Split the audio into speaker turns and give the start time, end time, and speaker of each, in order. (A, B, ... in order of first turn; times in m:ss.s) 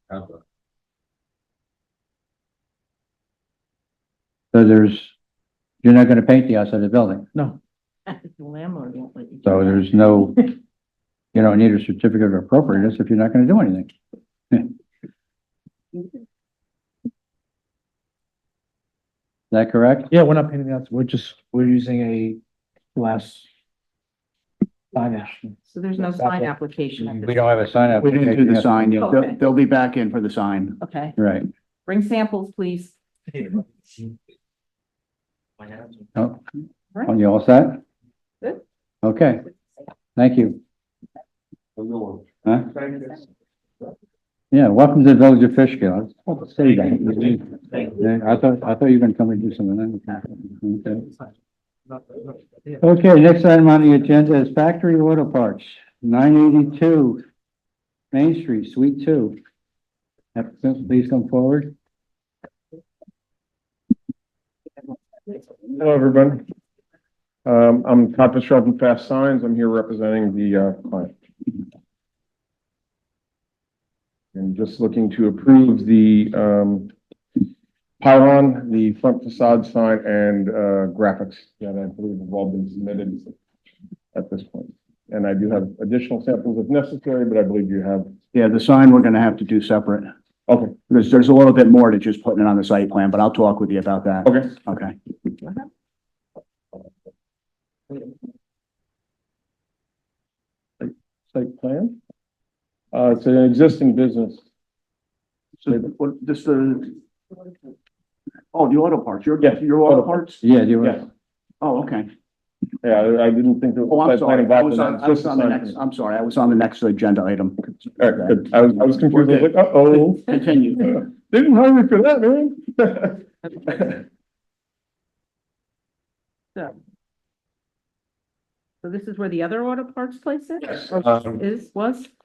0:04.5-0:05.1 A
0:05.8-0:07.3 A
0:08.1-0:10.3 B
0:09.4-0:10.5 A
0:11.3-0:13.9 A
0:19.5-0:20.1 A
0:20.1-0:22.4 C
0:23.0-0:23.5 C
0:24.9-0:26.5 C
0:25.7-0:27.4 B
0:27.1-0:29.1 A
0:28.0-0:30.8 D
0:29.0-0:29.4 B
0:30.8-0:31.2 B
0:31.2-0:31.5 A
0:31.8-0:33.0 B
0:36.2-0:36.4 A
0:37.0-0:37.8 A
0:39.0-0:39.4 A
0:40.2-0:40.6 A
0:42.4-0:42.7 A
0:42.9-0:43.2 B
0:44.5-0:51.0 A
0:52.8-0:57.2 A
0:58.1-0:59.4 A
1:00.3-1:01.7 A
1:05.7-1:06.4 E
1:07.4-1:11.1 E
1:14.3-1:16.9 E
1:18.0-1:23.3 E
1:24.1-1:28.1 E
1:28.3-1:30.1 D
1:30.5-1:30.7 E
1:30.9-1:35.0 D
1:40.8-1:42.0 E
1:42.9-1:44.4 E
1:45.6-1:46.9 D
1:48.5-1:50.4 D
1:49.4-1:50.1 E
1:50.4-1:51.0 A
1:51.6-1:52.1 D
1:52.8-1:55.8 E
1:53.9-2:01.0 D
1:58.0-2:03.9 E
2:08.8-2:12.1 B
2:10.8-2:11.3 E